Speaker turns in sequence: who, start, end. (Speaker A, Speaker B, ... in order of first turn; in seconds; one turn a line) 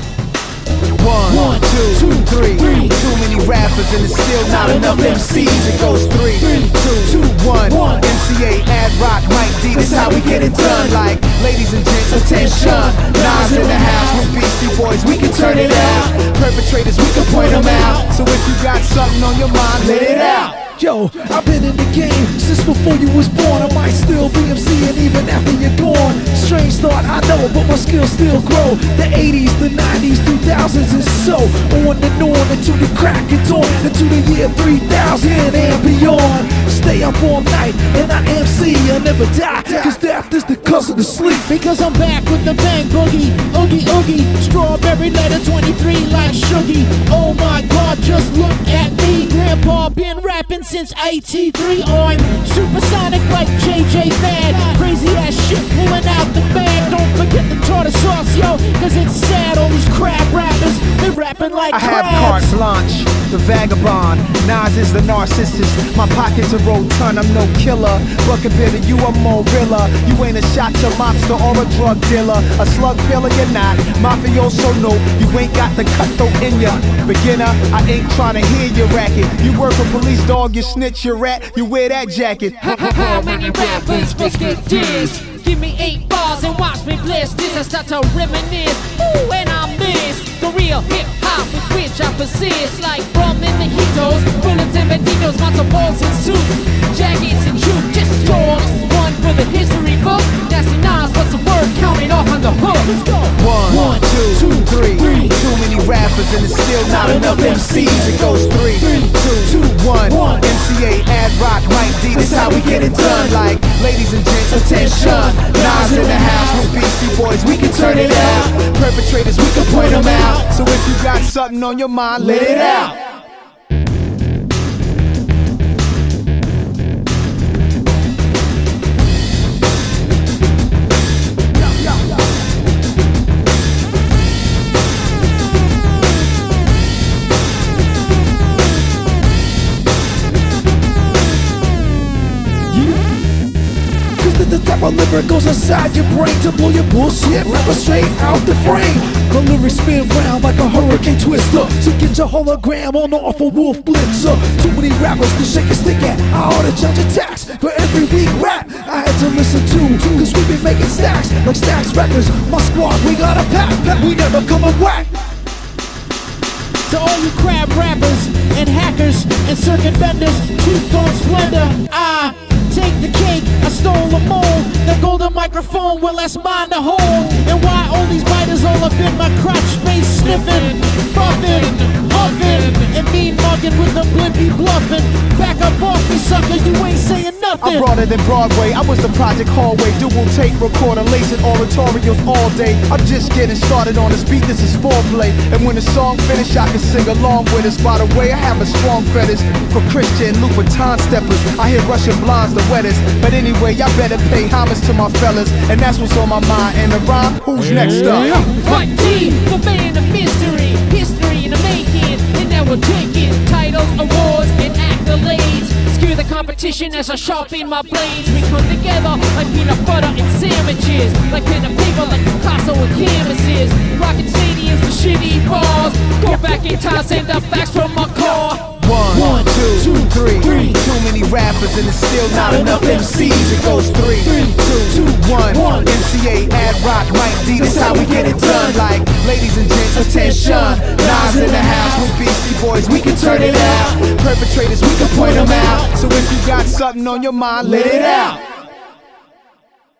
Speaker A: 0.9-20.6
Speaker B: 20.8-41.5
Speaker C: 41.5-62.5
Speaker A: 61.7-82.8
Speaker D: 82.6-103.1
Speaker A: 103.3-123.0
Speaker B: 144.2-165.1
Speaker C: 166.9-187.8
Speaker A: 187.6-208.5
Speaker D: 208.5-228.7
Speaker A: 228.7-248.4